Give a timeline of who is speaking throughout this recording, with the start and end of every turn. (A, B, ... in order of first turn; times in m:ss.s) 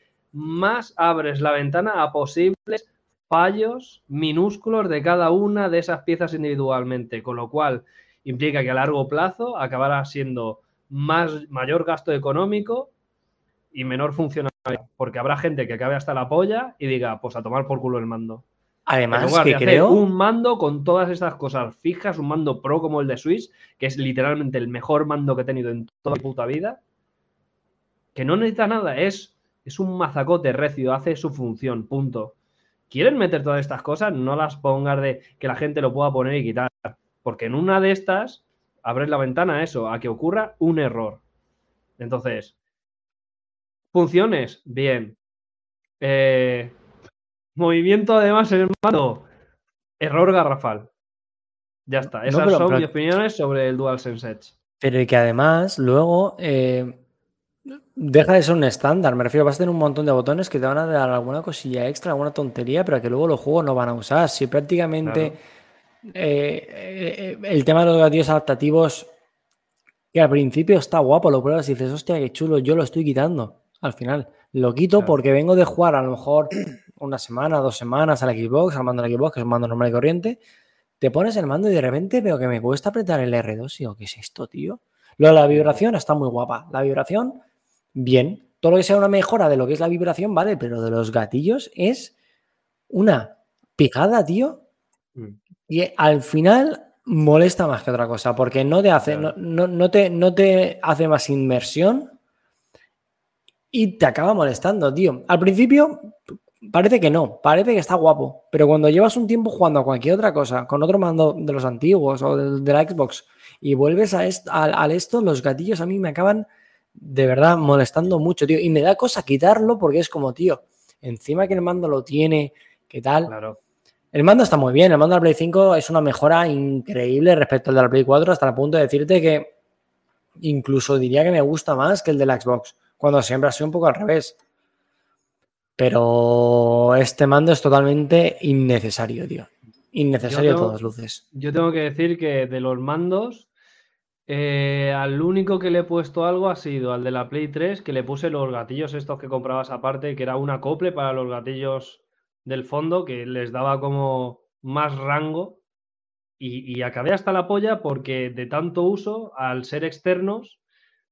0:00.3-0:12.9 A
0:13.7-0:18.4 A
0:18.9-0:20.0 B
0:19.1-0:26.8 A
0:28.1-0:32.3 A
0:32.9-0:41.2 A
0:42.0-0:42.5 A
0:43.9-0:45.2 A
0:46.0-0:46.7 A
0:47.6-0:49.3 A
0:50.0-0:50.9 A
0:51.8-0:54.5 A
0:52.2-0:52.9 B
0:54.8-0:57.0 B
0:57.9-1:05.4 B
1:05.0-1:05.4 A
1:06.0-1:09.1 B
1:10.1-1:20.4 B
1:21.0-1:27.4 B
1:25.5-1:25.8 A
1:27.9-1:32.1 B
1:32.9-1:34.6 B
1:35.7-1:42.1 B
1:39.0-1:39.3 A
1:43.7-2:03.3 B
2:03.2-2:03.6 A
2:04.1-2:09.5 B
2:10.4-2:14.4 B
2:15.8-2:21.2 B
2:20.3-2:20.8 A
2:21.3-2:23.5 A
2:24.3-2:35.6 A
2:36.4-2:40.6 A